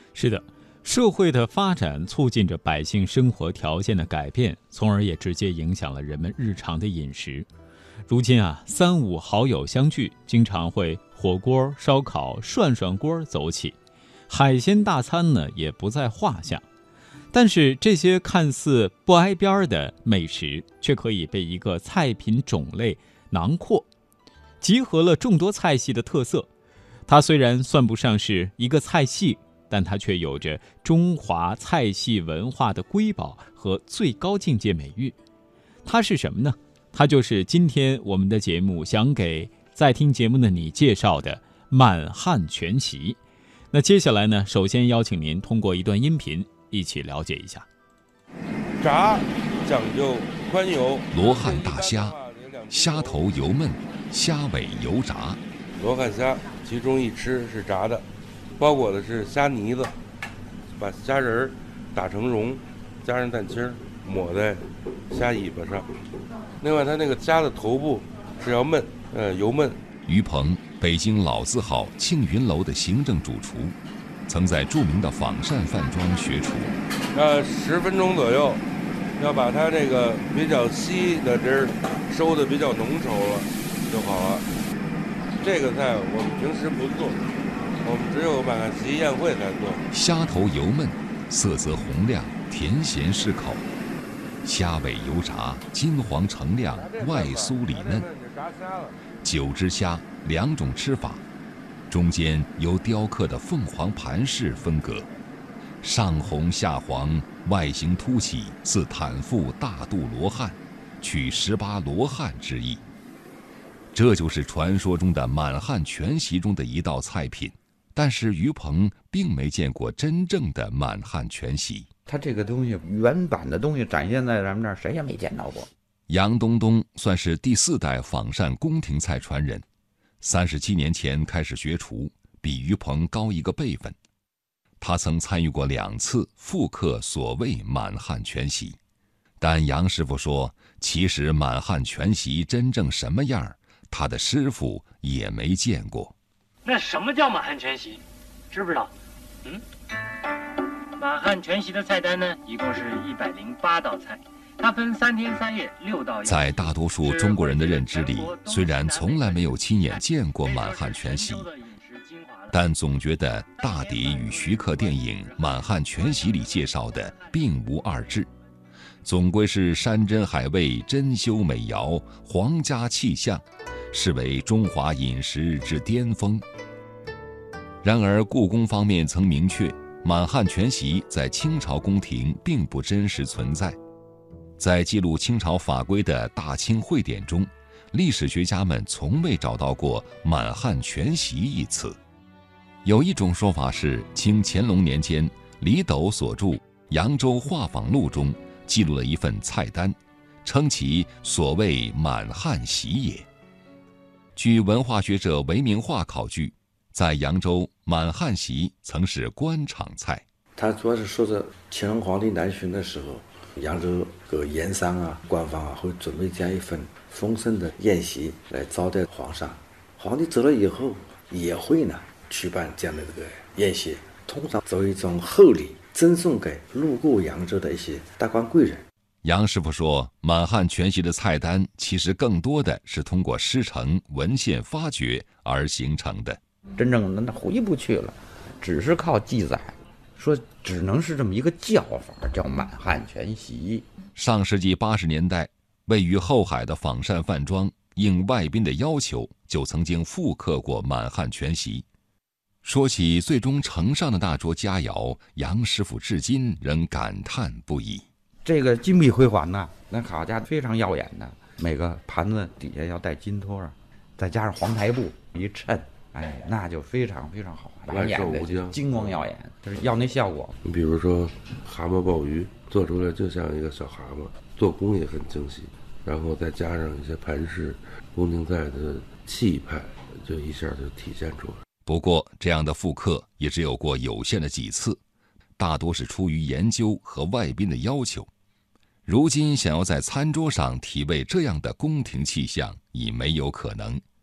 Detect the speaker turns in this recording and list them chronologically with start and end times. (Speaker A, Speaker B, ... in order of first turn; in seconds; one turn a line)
Speaker A: 0.1-7.5
Speaker A: 8.1-13.8
Speaker A: 14.3-16.6
Speaker A: 17.3-23.9
Speaker A: 24.6-26.5
Speaker A: 27.1-35.1
Speaker A: 35.8-43.2
Speaker A: 43.7-47.6
Speaker B: 48.8-53.3
Speaker C: 51.1-52.2
Speaker C: 52.7-55.4
Speaker B: 55.8-58.1
Speaker B: 58.6-60.0
Speaker B: 60.7-65.9
Speaker B: 66.6-69.8
Speaker C: 70.1-73.8
Speaker C: 74.3-76.7
Speaker B: 77.1-78.6
Speaker B: 79.2-84.5
Speaker B: 85.4-87.3
Speaker B: 87.8-89.8
Speaker C: 89.9-93.7
Speaker C: 94.4-98.1
Speaker B: 96.8-99.0
Speaker C: 99.2-101.2
Speaker C: 101.9-105.1
Speaker C: 105.8-112.8
Speaker C: 113.9-121.9
Speaker D: 122.1-125.7
Speaker C: 126.1-129.6
Speaker C: 130.2-133.9
Speaker C: 134.8-138.8
Speaker C: 139.4-146.1
Speaker E: 146.7-148.0
Speaker E: 148.5-148.9
Speaker E: 151.0-156.3
Speaker C: 156.2-161.5
Speaker E: 157.6-157.9
Speaker E: 158.7-159.2
Speaker E: 161.8-162.4
Speaker C: 162.5-168.3
Speaker C: 169.0-176.4
Speaker C: 177.8-183.8
Speaker C: 184.6-192.0
Speaker C: 192.8-203.2
Speaker C: 204.3-210.2
Speaker F: 210.6-228.8
Speaker C: 229.2-236.4
Speaker D: 236.8-243.8
Speaker C: 244.2-251.8
Speaker C: 252.6-258.1
Speaker D: 258.4-270.6
Speaker B: 267.9-269.2
Speaker B: 270.6-281.6
Speaker C: 281.9-285.0
Speaker C: 285.6-288.3
Speaker C: 289.1-294.0